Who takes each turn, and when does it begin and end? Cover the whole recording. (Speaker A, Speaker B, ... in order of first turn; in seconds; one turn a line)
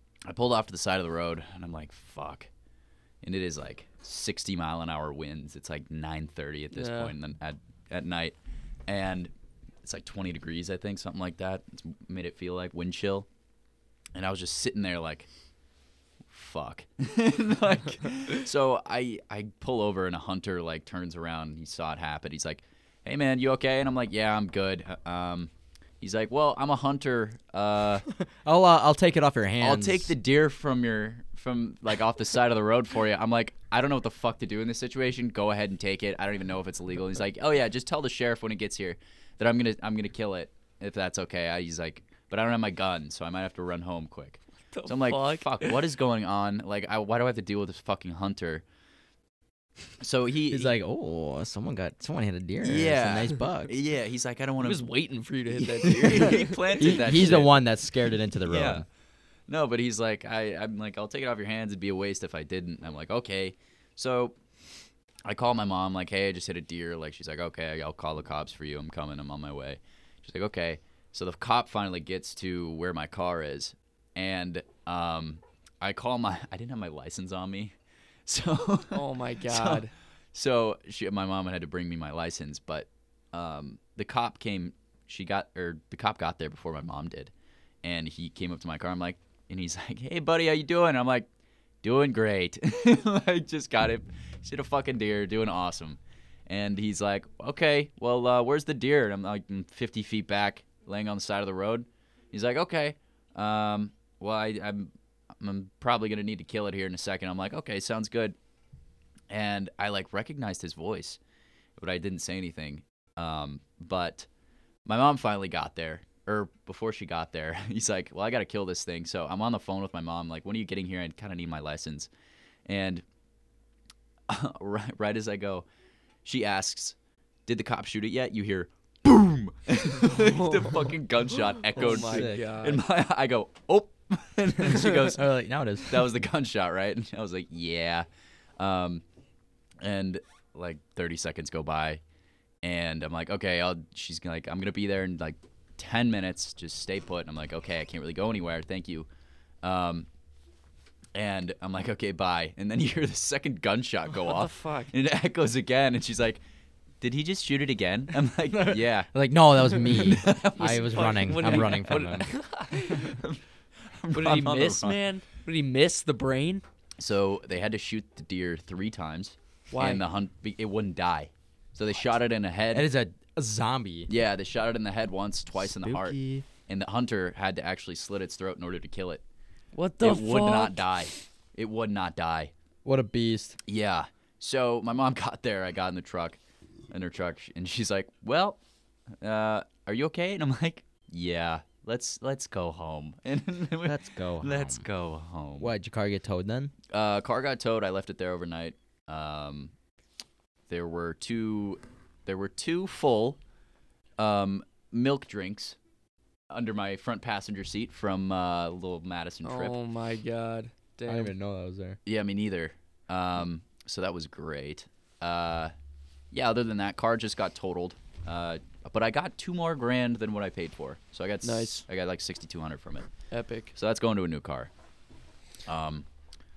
Speaker A: 0.3-2.5
Speaker A: 3.2-8.3
Speaker B: 6.7-7.1
Speaker A: 8.9-9.3
Speaker A: 9.8-13.3
Speaker A: 14.2-15.3
Speaker A: 16.3-25.5
Speaker A: 26.0-28.1
Speaker C: 28.4-30.1
Speaker A: 29.6-48.6
Speaker B: 44.7-45.8
Speaker A: 50.0-50.8
Speaker C: 50.5-53.7
Speaker A: 52.6-54.9
Speaker B: 54.6-57.0
Speaker A: 55.8-57.5
Speaker C: 55.9-56.3
Speaker C: 56.8-58.9
Speaker A: 58.5-58.9
Speaker A: 59.5-64.3
Speaker A: 65.3-77.7
Speaker A: 78.3-87.3
Speaker B: 78.9-79.9
Speaker A: 87.8-91.3
Speaker A: 91.8-108.3
Speaker A: 109.3-111.2
Speaker A: 111.8-114.3
Speaker A: 114.9-122.1
Speaker A: 122.7-123.0
Speaker A: 124.3-125.7
Speaker A: 126.2-127.0
Speaker A: 127.5-135.3
Speaker B: 130.0-130.8
Speaker B: 131.8-132.8
Speaker C: 131.8-132.4
Speaker C: 134.7-136.1
Speaker A: 135.8-138.1
Speaker A: 138.6-139.0
Speaker A: 139.8-142.0
Speaker A: 142.6-149.1
Speaker A: 149.6-150.1
Speaker A: 151.1-156.4
Speaker B: 154.2-154.9
Speaker A: 157.0-159.1
Speaker C: 158.6-162.3
Speaker A: 159.7-161.8
Speaker B: 160.6-163.2
Speaker A: 162.7-165.0
Speaker B: 164.2-166.6
Speaker A: 167.0-172.9
Speaker B: 169.7-170.0
Speaker C: 172.7-174.1
Speaker A: 174.1-179.2
Speaker C: 175.8-176.5
Speaker B: 179.8-180.8
Speaker A: 180.0-182.5
Speaker C: 182.8-183.6
Speaker A: 183.7-186.4
Speaker A: 186.9-188.6
Speaker A: 189.2-195.7
Speaker C: 193.8-194.8
Speaker C: 195.6-196.7
Speaker A: 196.9-199.7
Speaker A: 200.7-203.4
Speaker A: 204.2-205.8
Speaker A: 206.5-209.8
Speaker B: 209.4-211.3
Speaker C: 211.1-212.0
Speaker A: 212.1-215.7
Speaker A: 216.3-223.1
Speaker B: 221.4-221.8
Speaker B: 223.3-223.7
Speaker A: 223.7-224.7
Speaker A: 225.7-226.1